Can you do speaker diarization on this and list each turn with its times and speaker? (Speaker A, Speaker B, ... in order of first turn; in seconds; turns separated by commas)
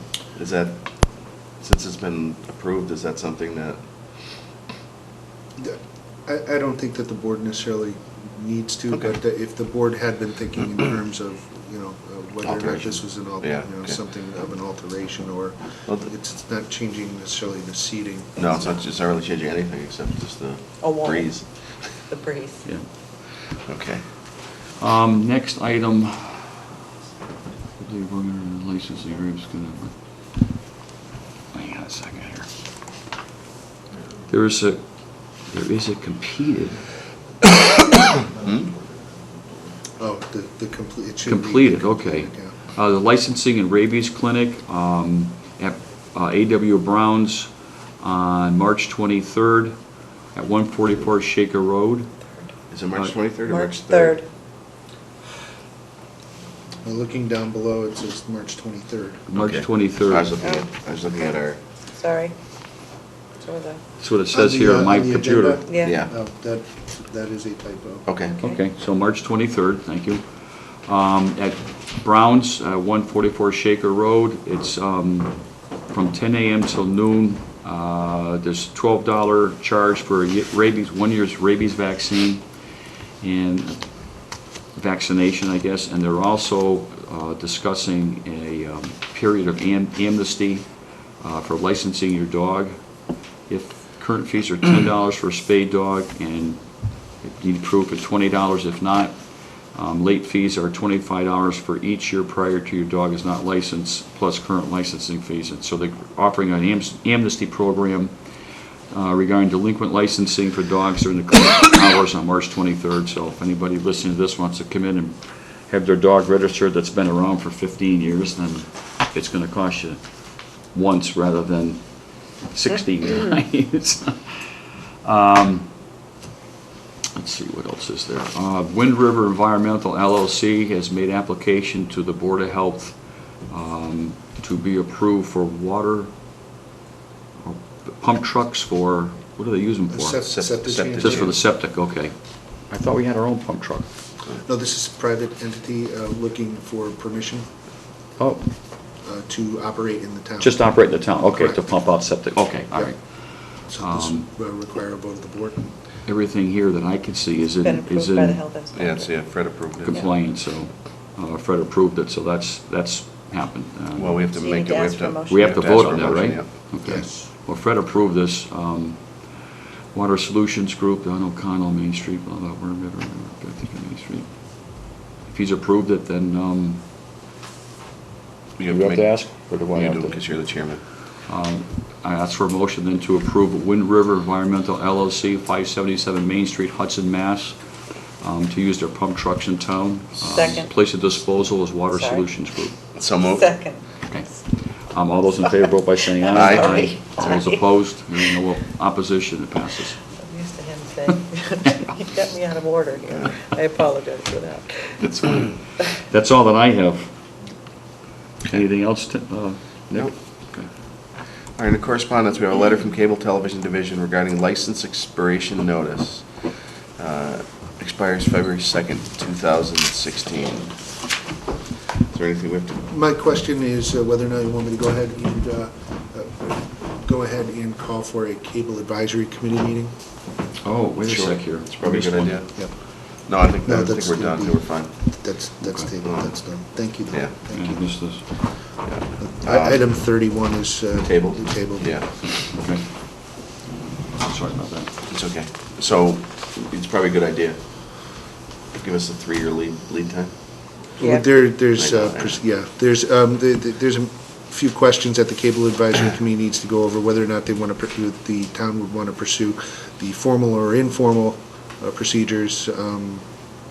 Speaker A: 0.3-3.8, Speaker B: 5.6-18.5, Speaker A: 12.4-14.0, Speaker A: 15.9-16.1, Speaker A: 18.4-22.1, Speaker C: 20.8-22.6, Speaker A: 23.7-24.1, Speaker D: 24.8-26.6, Speaker D: 27.8-30.0, Speaker D: 31.5-32.5, Speaker D: 34.3-36.9, Speaker A: 38.4-38.7, Speaker B: 40.0-42.6, Speaker D: 41.3-49.8, Speaker D: 50.3-52.1, Speaker A: 52.7-54.2, Speaker C: 53.5-54.3, Speaker B: 56.8-59.2, Speaker D: 59.3-60.3, Speaker A: 59.4-61.6, Speaker C: 60.4-60.7, Speaker C: 61.9-62.4, Speaker C: 63.4-63.8, Speaker D: 64.0-65.6, Speaker B: 64.3-68.1, Speaker C: 65.7-65.9, Speaker A: 65.8-66.1, Speaker A: 68.1-68.4, Speaker D: 68.4-82.4, Speaker D: 83.2-92.8, Speaker D: 93.5-108.2, Speaker D: 108.9-120.0, Speaker D: 120.7-125.7, Speaker D: 127.2-136.1, Speaker D: 137.4-140.2, Speaker B: 139.9-141.3, Speaker A: 140.3-141.4, Speaker D: 141.0-142.2, Speaker D: 142.7-143.9, Speaker B: 144.4-147.5, Speaker D: 148.2-148.5, Speaker B: 149.0-151.7, Speaker D: 150.4-154.3, Speaker B: 153.7-155.7, Speaker D: 156.1-158.4, Speaker C: 157.6-159.3, Speaker A: 158.8-160.1, Speaker D: 159.8-164.2, Speaker A: 164.0-166.7, Speaker C: 164.3-165.6, Speaker D: 165.3-176.8, Speaker B: 166.8-167.2, Speaker A: 178.6-180.8, Speaker D: 178.7-180.2, Speaker D: 181.3-187.6, Speaker D: 188.2-192.8, Speaker C: 190.2-190.7, Speaker C: 191.9-192.3, Speaker A: 192.9-193.6, Speaker C: 193.2-193.8, Speaker D: 194.1-200.0, Speaker C: 196.2-197.0, Speaker A: 196.3-197.6, Speaker C: 200.2-205.1, Speaker A: 205.0-205.6, Speaker D: 206.1-207.2, Speaker D: 208.4-210.7, Speaker A: 211.6-220.8, Speaker A: 222.1-222.9, Speaker B: 222.9-229.9, Speaker D: 230.6-232.4, Speaker A: 231.1-235.0, Speaker B: 233.7-238.3, Speaker D: 235.6-235.9, Speaker A: 236.1-236.3, Speaker A: 237.1-237.4, Speaker D: 237.5-238.3, Speaker A: 238.6-239.8, Speaker B: 239.2-242.1, Speaker A: 241.1-242.2, Speaker D: 242.5-242.9, Speaker D: 244.2-244.9, Speaker A: 245.1-250.7, Speaker B: 251.0-263.3, Speaker A: 251.7-252.4